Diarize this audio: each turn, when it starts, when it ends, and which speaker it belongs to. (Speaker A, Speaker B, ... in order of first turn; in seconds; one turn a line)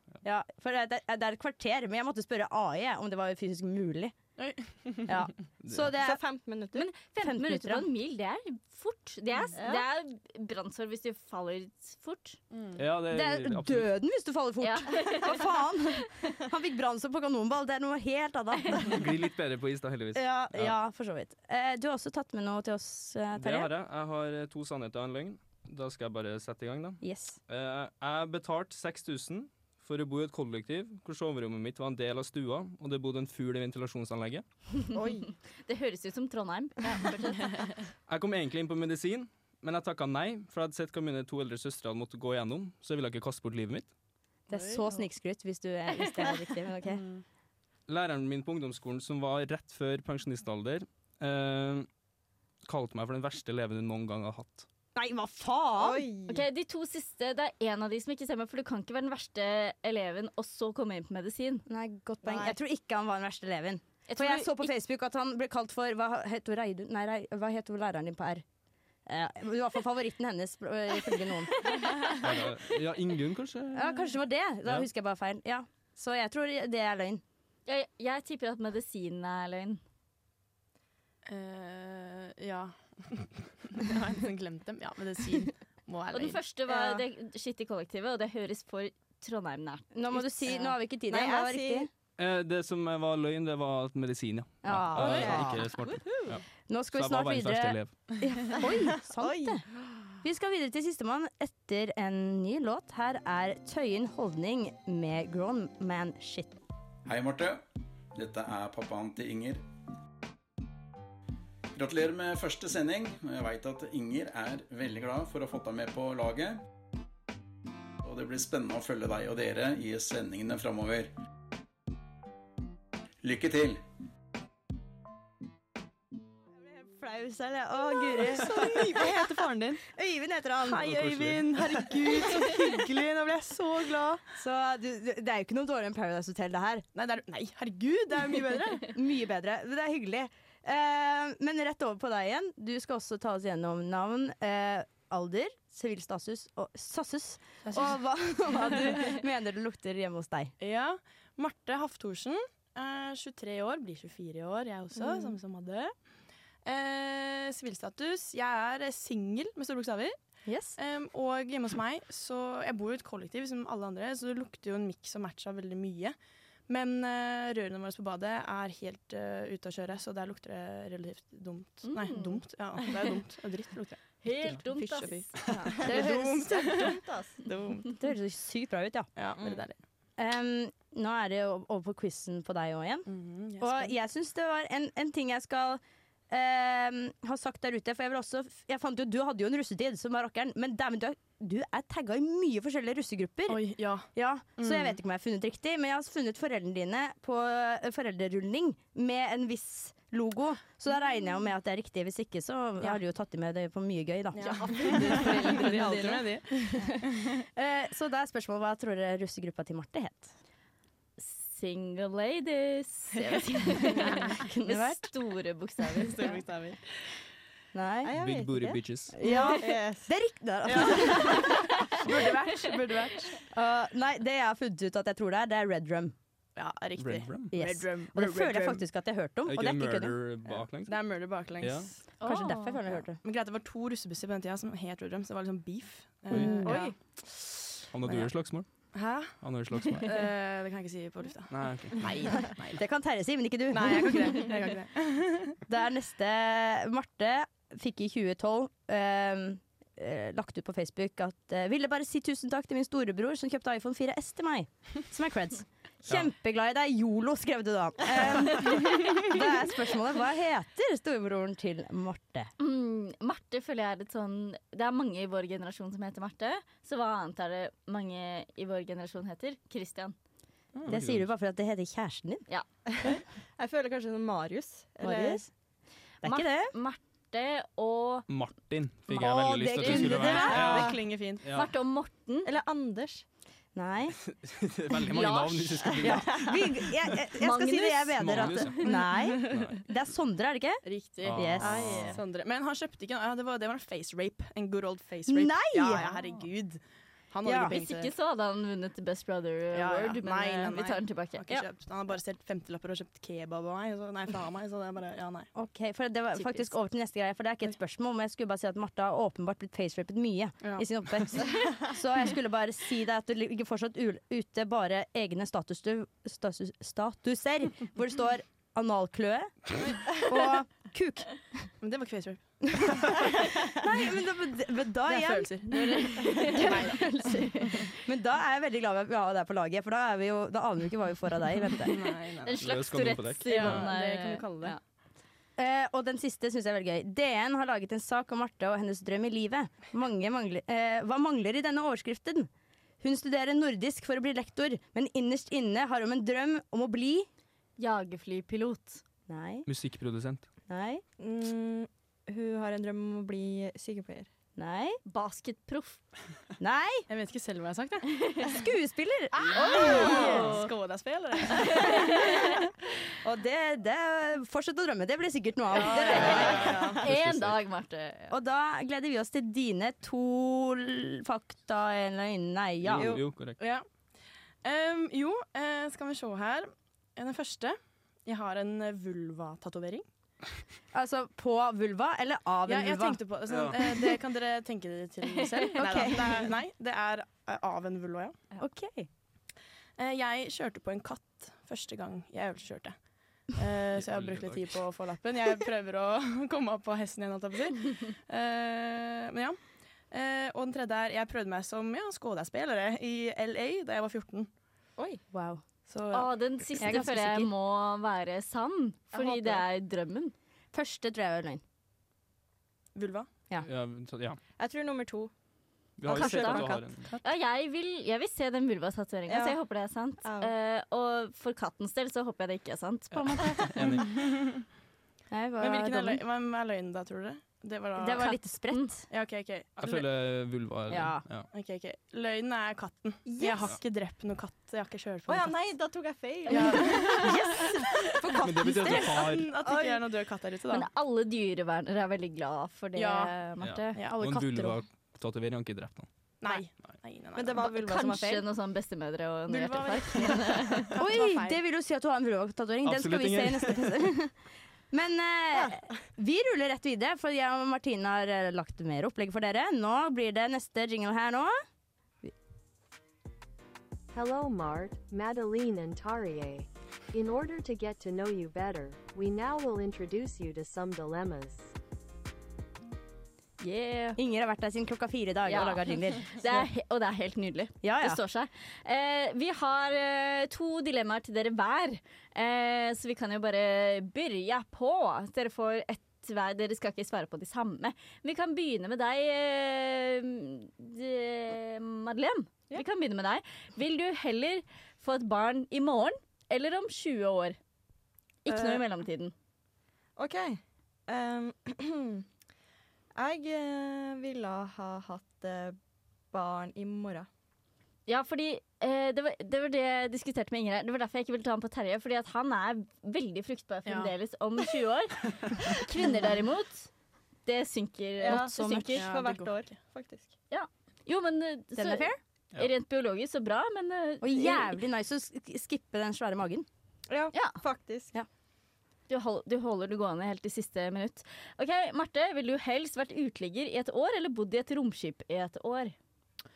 Speaker A: 0.2-4.2
Speaker B: 4.4-5.3
Speaker A: 5.1-6.2
Speaker C: 6.0-6.9
Speaker D: 6.7-12.4
Speaker A: 7.2-7.9
Speaker C: 9.6-9.8
Speaker B: 12.5-12.8
Speaker E: 12.8-13.9
Speaker A: 13.1-19.0
Speaker D: 14.6-16.0
Speaker E: 18.9-20.8
Speaker A: 20.1-23.7
Speaker E: 23.4-34.5
Speaker A: 27.0-27.4
Speaker C: 34.9-35.3
Speaker D: 35.6-37.6
Speaker E: 38.1-43.9
Speaker A: 44.5-47.0
Speaker B: 44.5-45.0
Speaker D: 46.0-46.3
Speaker B: 46.9-47.2
Speaker E: 47.9-51.9
Speaker E: 52.7-54.7
Speaker A: 55.0-56.1
Speaker C: 55.8-56.5
Speaker D: 56.3-61.6
Speaker A: 61.7-68.4
Speaker C: 62.2-62.6
Speaker D: 64.1-64.7
Speaker A: 69.1-72.0
Speaker D: 71.7-72.1
Speaker E: 72.2-74.1
Speaker A: 73.7-77.2
Speaker D: 77.7-79.8
Speaker B: 81.3-86.4
Speaker D: 86.1-90.7
Speaker A: 89.9-91.9
Speaker C: 91.1-91.9
Speaker E: 92.2-98.0
Speaker A: 94.6-95.7
Speaker C: 94.9-96.3
Speaker A: 96.7-99.6
Speaker C: 98.6-99.7
Speaker A: 100.2-106.6
Speaker F: 107.1-107.6
Speaker F: 108.2-109.6
Speaker F: 111.7-116.6
Speaker F: 118.0-121.1
Speaker F: 123.2-123.8
Speaker A: 126.8-129.0
Speaker C: 128.4-129.4
Speaker B: 128.4-129.8
Speaker A: 129.9-131.1
Speaker E: 130.8-131.8
Speaker B: 130.8-134.2
Speaker A: 134.3-136.9
Speaker B: 136.9-138.9
Speaker A: 138.9-150.5
Speaker B: 147.6-149.1
Speaker B: 150.6-155.9
Speaker B: 156.7-160.2
Speaker A: 160.5-160.8
Speaker B: 160.8-166.2
Speaker B: 166.7-177.8
Speaker D: 171.8-172.4
Speaker D: 174.2-175.9
Speaker C: 175.8-177.8
Speaker A: 177.9-179.1
Speaker B: 179.2-179.8
Speaker A: 180.2-183.1
Speaker B: 183.1-183.9
Speaker A: 183.6-206.1
Speaker B: 193.5-195.0
Speaker B: 204.3-207.4
Speaker D: 204.4-206.2
Speaker A: 206.6-210.3
Speaker D: 211.2-216.4
Speaker B: 213.2-214.4
Speaker A: 214.4-215.1
Speaker B: 216.0-216.8
Speaker A: 217.7-218.1
Speaker C: 218.0-221.5
Speaker E: 218.2-219.2
Speaker A: 219.2-222.2
Speaker B: 221.9-223.3
Speaker A: 223.5-226.1
Speaker B: 226.6-228.8
Speaker E: 227.0-227.5
Speaker A: 227.5-230.2
Speaker E: 229.5-231.1
Speaker B: 230.6-232.0
Speaker E: 231.6-231.9
Speaker D: 232.2-232.8
Speaker A: 232.2-233.2
Speaker B: 233.2-238.3
Speaker E: 236.3-236.8
Speaker A: 236.3-236.9
Speaker E: 237.9-238.7
Speaker B: 238.9-239.4
Speaker E: 239.4-240.2
Speaker B: 240.0-242.8
Speaker E: 241.5-242.3
Speaker A: 242.7-244.5
Speaker B: 243.7-245.6
Speaker A: 245.7-262.5
Speaker D: 262.6-270.1
Speaker E: 270.8-271.3
Speaker A: 270.9-272.4
Speaker C: 272.9-275.4
Speaker A: 275.0-275.5
Speaker A: 276.2-276.7
Speaker D: 276.2-278.3
Speaker E: 278.3-281.7
Speaker A: 279.1-280.9
Speaker B: 279.9-281.4
Speaker D: 281.5-282.5
Speaker C: 282.4-283.2
Speaker A: 283.8-284.2
Speaker E: 284.3-286.4
Speaker D: 285.1-285.9
Speaker A: 286.0-292.0
Speaker C: 286.0-286.6
Speaker D: 287.4-288.8
Speaker E: 288.2-288.9
Speaker B: 288.9-289.2
Speaker E: 289.5-289.8
Speaker B: 290.8-298.1
Speaker E: 291.2-292.2
Speaker C: 291.6-292.2
Speaker A: 295.3-296.1
Speaker A: 297.4-297.7
Speaker D: 297.7-301.7
Speaker B: 299.7-305.5
Speaker A: 305.6-321.3
Speaker D: 306.3-306.7
Speaker B: 310.6-310.9
Speaker B: 321.8-323.4
Speaker A: 322.8-323.2
Speaker A: 323.8-331.9
Speaker B: 325.1-327.1
Speaker D: 325.8-326.8
Speaker D: 327.3-327.7
Speaker B: 331.8-332.6
Speaker D: 332.4-334.8
Speaker E: 332.6-333.9
Speaker B: 333.4-334.8
Speaker A: 335.6-342.5
Speaker A: 343.0-347.3
Speaker D: 347.8-349.0
Speaker A: 349.3-349.7
Speaker E: 349.7-350.5
Speaker A: 350.7-351.0
Speaker C: 351.2-354.3
Speaker A: 354.6-355.0
Speaker D: 355.1-356.0
Speaker A: 356.6-357.1
Speaker B: 357.1-358.1
Speaker D: 358.2-358.5
Speaker A: 358.4-360.5
Speaker B: 359.4-362.3
Speaker D: 359.5-360.7
Speaker D: 361.5-362.4
Speaker A: 363.2-366.8
Speaker B: 365.7-367.0
Speaker D: 366.0-368.4
Speaker E: 366.1-367.6
Speaker A: 368.3-373.2
Speaker E: 372.8-373.6
Speaker C: 373.0-373.2
Speaker B: 373.6-373.9
Speaker B: 374.6-380.1
Speaker A: 380.9-383.2
Speaker B: 382.7-388.4
Speaker E: 383.5-383.8
Speaker D: 385.2-385.8
Speaker A: 385.8-386.5
Speaker A: 388.6-389.1
Speaker B: 390.0-393.0
Speaker B: 393.5-399.6
Speaker E: 393.9-394.8
Speaker B: 400.1-404.5
Speaker A: 405.3-405.6
Speaker B: 405.9-406.9
Speaker D: 406.1-410.3
Speaker A: 406.8-407.5
Speaker C: 409.1-409.6
Speaker A: 410.7-411.6
Speaker B: 412.9-413.3
Speaker E: 413.7-414.4
Speaker C: 414.6-415.3
Speaker E: 416.0-417.0
Speaker C: 416.1-416.9
Speaker D: 416.1-416.7
Speaker D: 417.2-423.8
Speaker C: 419.3-419.6
Speaker C: 420.2-420.6
Speaker E: 423.2-424.1
Speaker A: 425.3-426.2
Speaker B: 425.6-428.4
Speaker A: 428.0-429.0
Speaker D: 428.3-428.9
Speaker B: 429.1-430.1
Speaker E: 429.8-431.5
Speaker A: 430.9-431.2
Speaker B: 431.5-435.7
Speaker C: 433.3-433.7
Speaker C: 435.3-437.5
Speaker B: 436.5-437.4
Speaker A: 437.2-439.1
Speaker E: 438.4-439.5
Speaker B: 438.8-440.9
Speaker C: 439.5-440.1
Speaker D: 440.7-444.5
Speaker B: 443.0-443.4
Speaker E: 443.6-446.1
Speaker B: 443.9-444.6
Speaker B: 446.4-447.7
Speaker C: 447.4-448.4
Speaker D: 447.6-451.0
Speaker B: 449.5-451.6
Speaker A: 451.0-454.4
Speaker E: 452.8-454.0
Speaker A: 454.9-461.6
Speaker G: 464.1-471.7
Speaker D: 473.6-474.2
Speaker A: 474.2-476.6
Speaker D: 475.5-497.6
Speaker A: 477.8-478.2
Speaker D: 498.4-499.3
Speaker C: 498.5-498.9
Speaker C: 500.2-502.2
Speaker C: 503.2-505.8
Speaker C: 506.3-507.3
Speaker D: 508.1-516.9
Speaker B: 513.9-514.1
Speaker D: 517.5-519.1
Speaker C: 518.2-520.3
Speaker A: 518.3-519.0
Speaker B: 519.0-519.8
Speaker D: 520.5-524.8
Speaker A: 521.8-522.2
Speaker A: 524.2-526.7
Speaker C: 527.1-528.1
Speaker D: 527.3-527.6
Speaker D: 529.1-536.0